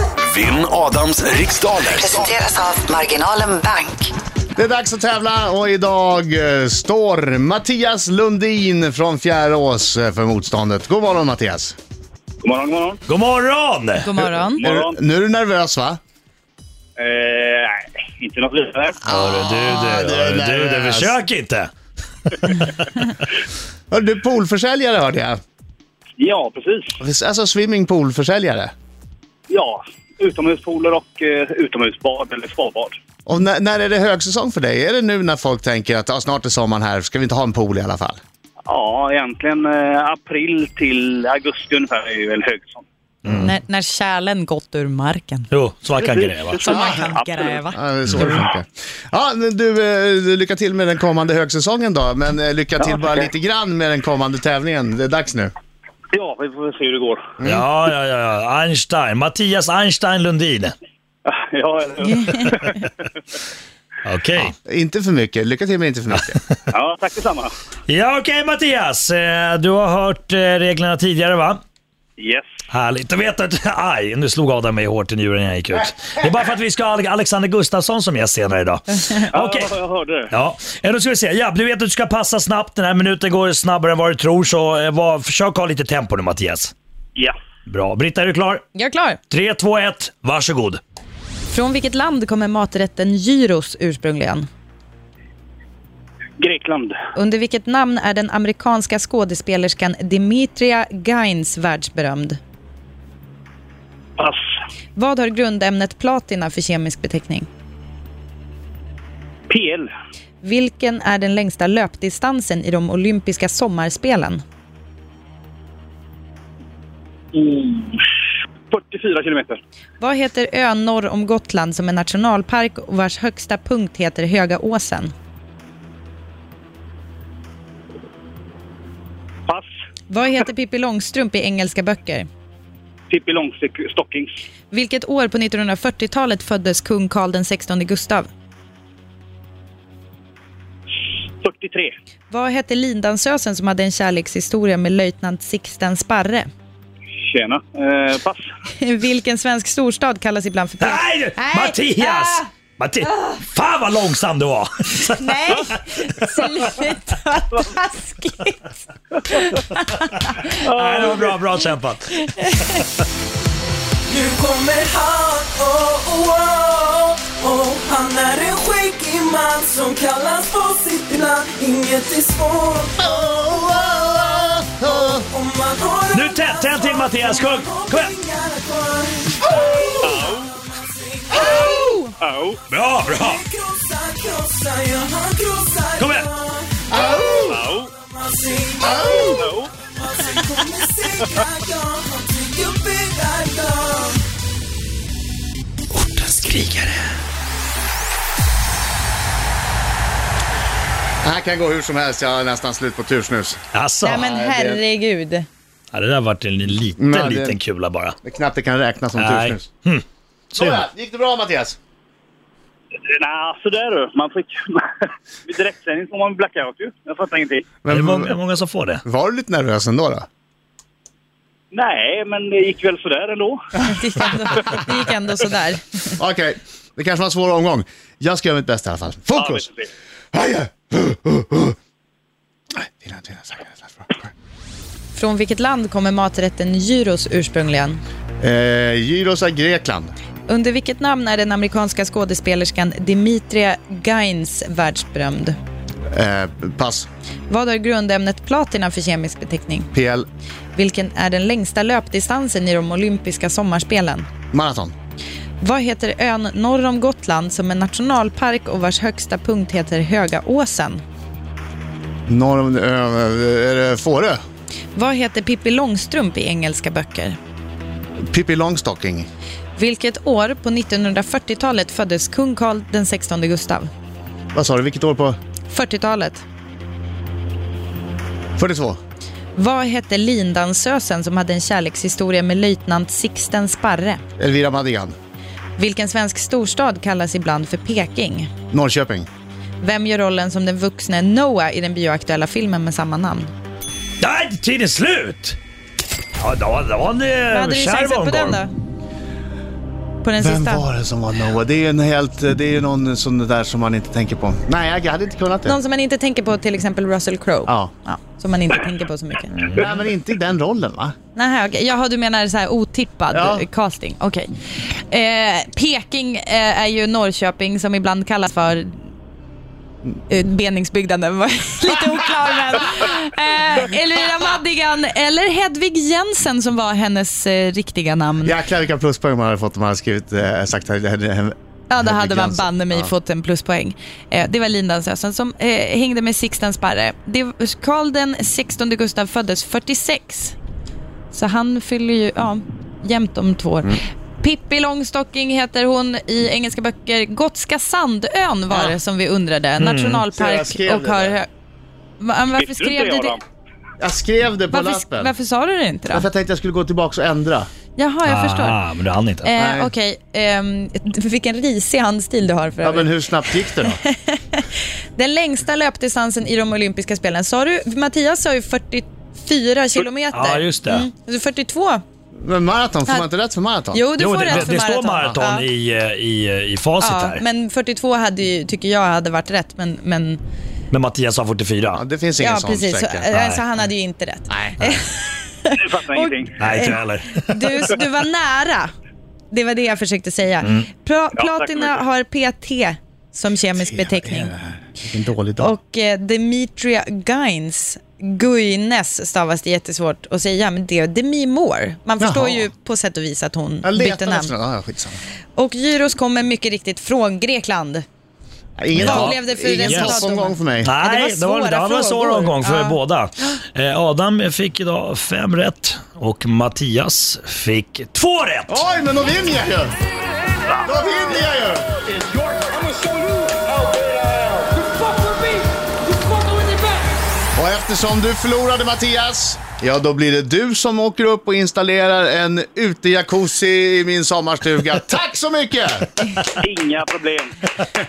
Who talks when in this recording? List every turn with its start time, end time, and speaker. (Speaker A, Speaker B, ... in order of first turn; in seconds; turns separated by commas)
Speaker A: 0.2-2.4, Speaker B: 1.9-4.1, Speaker C: 4.6-11.8, Speaker D: 12.4-13.0, Speaker E: 13.1-14.2, Speaker F: 14.0-14.6, Speaker D: 14.6-15.0, Speaker C: 14.6-16.0, Speaker D: 17.0-19.2, Speaker E: 19.1-21.7, Speaker C: 19.1-21.2, Speaker C: 23.9-25.4, Speaker D: 26.2-27.0, Speaker C: 27.0-28.7, Speaker D: 29.5-33.0, Speaker C: 33.3-38.2, Speaker D: 38.7-42.8, Speaker E: 43.2-43.5, Speaker F: 43.4-45.5, Speaker E: 45.5-46.6, Speaker D: 46.0-47.6, Speaker F: 46.6-47.8, Speaker C: 46.7-47.1, Speaker C: 47.7-55.5, Speaker D: 56.1-57.4, Speaker C: 57.4-57.7, Speaker E: 57.4-60.7, Speaker D: 61.2-62.9, Speaker F: 62.1-62.8, Speaker E: 64.0-64.5, Speaker C: 64.7-66.4, Speaker D: 66.7-67.5, Speaker E: 67.9-71.6, Speaker D: 72.2-72.5, Speaker E: 72.7-79.7, Speaker D: 79.3-80.3, Speaker E: 80.3-86.7, Speaker E: 87.7-88.7, Speaker F: 88.7-89.2, Speaker E: 89.3-90.8, Speaker F: 91.5-94.5, Speaker D: 96.4-97.0, Speaker F: 97.2-102.4, Speaker F: 105.0-107.5, Speaker D: 109.5-109.9, Speaker F: 110.4-114.4, Speaker D: 117.3-118.0, Speaker D: 118.7-119.6, Speaker F: 120.0-125.1, Speaker F: 130.1-132.3, Speaker D: 133.1-134.3, Speaker F: 134.7-138.3, Speaker D: 141.4-141.9, Speaker F: 142.3-146.5, Speaker D: 147.3-148.5, Speaker F: 148.7-152.4, Speaker E: 150.8-155.8, Speaker F: 155.2-160.6, Speaker D: 160.6-161.4, Speaker E: 160.7-162.6, Speaker F: 162.4-162.8, Speaker G: 164.1-173.4, Speaker C: 173.0-175.2, Speaker G: 174.8-181.8, Speaker E: 176.1-178.2, Speaker D: 180.0-180.6, Speaker F: 181.4-182.1, Speaker D: 181.5-182.6, Speaker E: 182.7-183.4, Speaker G: 183.0-194.2, Speaker E: 186.0-186.3, Speaker C: 186.9-187.6, Speaker D: 187.4-187.9, Speaker C: 188.8-189.4, Speaker D: 189.3-189.7, Speaker D: 191.1-191.4, Speaker E: 195.9-197.1, Speaker C: 201.2-204.8, Speaker E: 203.7-204.2, Speaker F: 204.0-205.5, Speaker E: 205.9-208.2, Speaker C: 207.0-207.6, Speaker C: 208.2-209.7, Speaker E: 209.2-210.8, Speaker C: 210.6-211.8, Speaker D: 213.1-217.8, Speaker C: 217.8-218.4, Speaker E: 217.9-219.0, Speaker C: 219.1-220.3, Speaker D: 221.7-223.6, Speaker F: 223.8-226.1, Speaker C: 226.2-229.7, Speaker D: 229.3-229.9, Speaker C: 230.3-231.8, Speaker C: 232.8-234.3, Speaker F: 235.2-238.0, Speaker C: 238.4-240.1, Speaker F: 240.5-245.6, Speaker C: 246.1-247.1, Speaker F: 247.5-249.9, Speaker C: 249.9-250.3, Speaker F: 250.8-254.3, Speaker C: 254.5-254.9, Speaker F: 255.6-261.0, Speaker C: 262.3-264.4, Speaker F: 264.9-267.4, Speaker C: 268.3-269.3, Speaker F: 269.8-273.9, Speaker C: 274.5-275.4, Speaker F: 275.7-276.4, Speaker C: 278.6-279.0, Speaker F: 279.6-284.2, Speaker C: 284.4-285.1, Speaker F: 285.8-288.5, Speaker C: 288.7-289.3, Speaker F: 289.8-293.5, Speaker E: 294.2-295.6, Speaker E: 296.4-298.6, Speaker F: 297.5-298.7, Speaker F: 300.2-300.9, Speaker C: 300.4-305.8, Speaker F: 305.6-309.6, Speaker C: 309.7-311.1, Speaker F: 311.4-314.5, Speaker C: 313.3-313.6, Speaker F: 315.1-319.0, Speaker F: 320.3-328.6, Speaker C: 328.4-333.1, Speaker F: 331.9-340.6, Speaker F: 341.3-351.5, Speaker C: 348.7-349.0, Speaker E: 349.8-350.3, Speaker C: 350.3-351.4, Speaker F: 352.2-353.4, Speaker D: 352.6-353.4, Speaker C: 354.0-355.3, Speaker F: 354.7-356.3, Speaker C: 356.1-357.7, Speaker F: 358.0-358.8, Speaker E: 358.2-359.5, Speaker F: 359.5-364.6, Speaker C: 359.5-359.9, Speaker C: 362.8-364.0, Speaker F: 365.2-372.0, Speaker E: 370.3-371.1, Speaker C: 372.4-374.7, Speaker F: 373.9-375.7, Speaker E: 374.2-377.4, Speaker F: 377.0-380.4, Speaker E: 380.9-382.0, Speaker C: 381.9-383.3, Speaker F: 382.4-388.9, Speaker E: 383.3-383.6, Speaker C: 384.5-385.0, Speaker D: 385.8-386.6, Speaker E: 386.6-387.8, Speaker F: 389.5-394.5, Speaker E: 390.6-390.9, Speaker D: 391.4-392.0, Speaker C: 393.8-395.7, Speaker F: 395.6-404.5, Speaker C: 402.2-402.7, Speaker C: 403.8-405.2, Speaker F: 405.6-408.1, Speaker C: 408.8-410.9, Speaker E: 409.0-410.2, Speaker F: 409.0-413.0, Speaker E: 410.8-418.8, Speaker C: 418.7-419.9, Speaker C: 420.8-421.9, Speaker G: 424.8-425.4, Speaker G: 426.5-426.9, Speaker C: 427.6-436.3, Speaker D: 436.5-437.6